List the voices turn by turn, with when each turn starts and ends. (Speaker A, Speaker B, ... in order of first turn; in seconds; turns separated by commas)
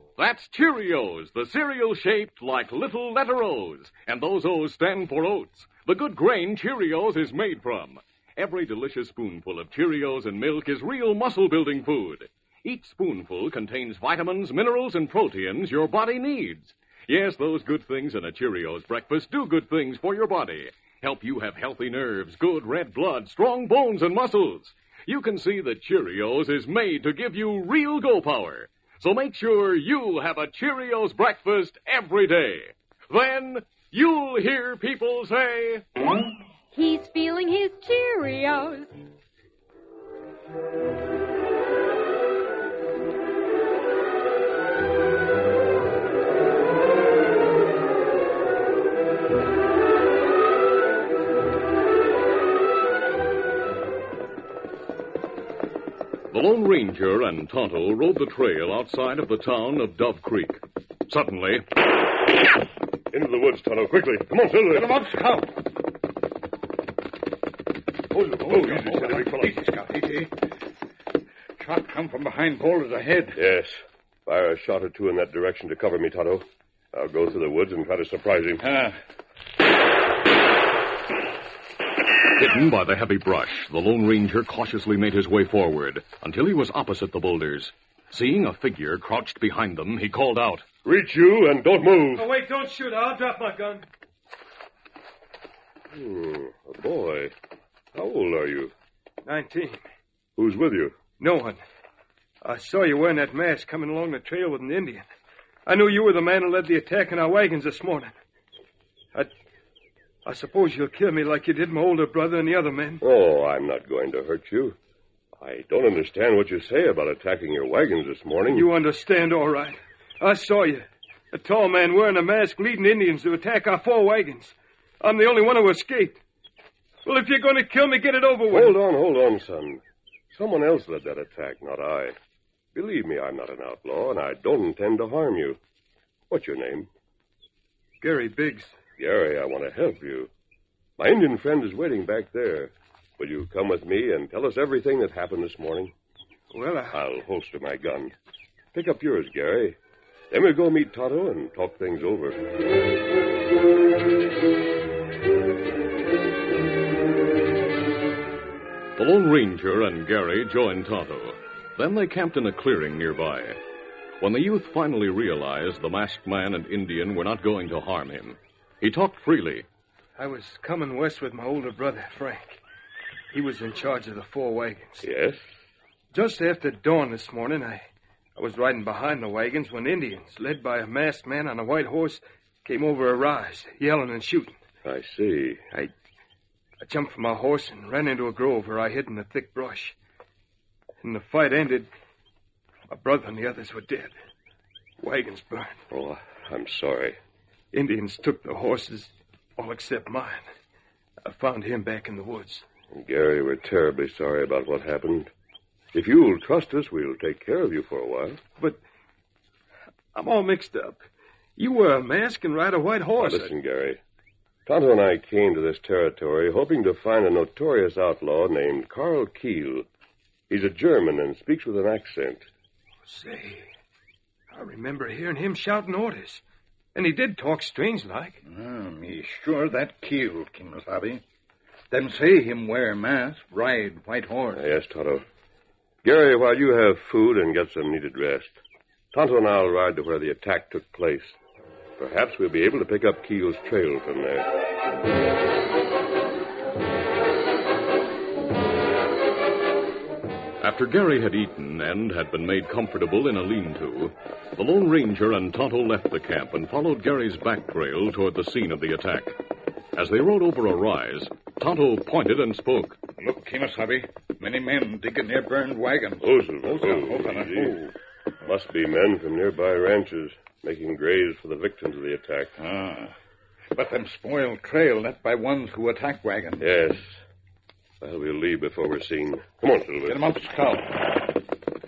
Speaker A: 0.2-35.9, Speaker B: 36.7-38.9, Speaker A: 56.3-61.6, Speaker C: 63.1-64.9, Speaker D: 64.7-65.5, Speaker D: 68.2-70.3, Speaker C: 68.4-69.6, Speaker D: 71.6-73.4, Speaker C: 73.3-78.6, Speaker D: 78.6-79.0, Speaker A: 82.4-90.6, Speaker C: 90.8-92.3, Speaker E: 92.2-93.8, Speaker C: 95.9-97.3, Speaker C: 97.9-98.7, Speaker E: 99.2-99.8, Speaker C: 100.3-101.0, Speaker E: 101.2-101.6, Speaker E: 102.4-105.1, Speaker E: 105.7-108.1, Speaker E: 110.2-113.0, Speaker C: 113.0-114.8, Speaker C: 115.4-118.7, Speaker E: 118.5-126.2, Speaker E: 127.0-128.8, Speaker C: 128.5-132.1, Speaker C: 132.7-135.6, Speaker C: 136.3-136.9, Speaker E: 138.0-138.7, Speaker C: 139.0-140.3, Speaker C: 141.0-145.9, Speaker E: 146.5-147.0, Speaker C: 146.9-148.1, Speaker C: 148.7-149.8, Speaker C: 150.3-152.4, Speaker A: 159.0-163.6, Speaker A: 164.2-169.7, Speaker E: 170.2-172.6, Speaker E: 173.3-175.0, Speaker C: 175.0-175.4, Speaker E: 176.1-184.6, Speaker C: 184.8-185.9, Speaker E: 186.8-189.9, Speaker E: 191.0-191.9, Speaker E: 192.9-194.1, Speaker E: 195.0-195.8, Speaker C: 195.9-197.2, Speaker E: 197.7-200.4, Speaker E: 201.2-202.6, Speaker C: 202.9-205.3, Speaker C: 205.9-208.4, Speaker E: 210.1-211.0, Speaker E: 211.6-213.5, Speaker C: 213.2-214.0, Speaker C: 214.7-219.9, Speaker C: 220.5-222.5, Speaker E: 223.1-223.7, Speaker E: 224.5-226.4, Speaker E: 226.9-228.4, Speaker D: 228.4-231.2, Speaker D: 231.9-234.6, Speaker C: 234.5-235.2, Speaker C: 236.0-238.6, Speaker C: 239.1-241.3, Speaker C: 242.0-244.5, Speaker A: 250.6-259.4, Speaker A: 259.9-263.0, Speaker D: 263.2-267.9, Speaker C: 266.2-267.7, Speaker C: 268.4-272.5, Speaker D: 272.6-273.1, Speaker D: 273.7-276.6, Speaker C: 276.6-277.1, Speaker C: 278.0-280.2, Speaker D: 280.1-281.0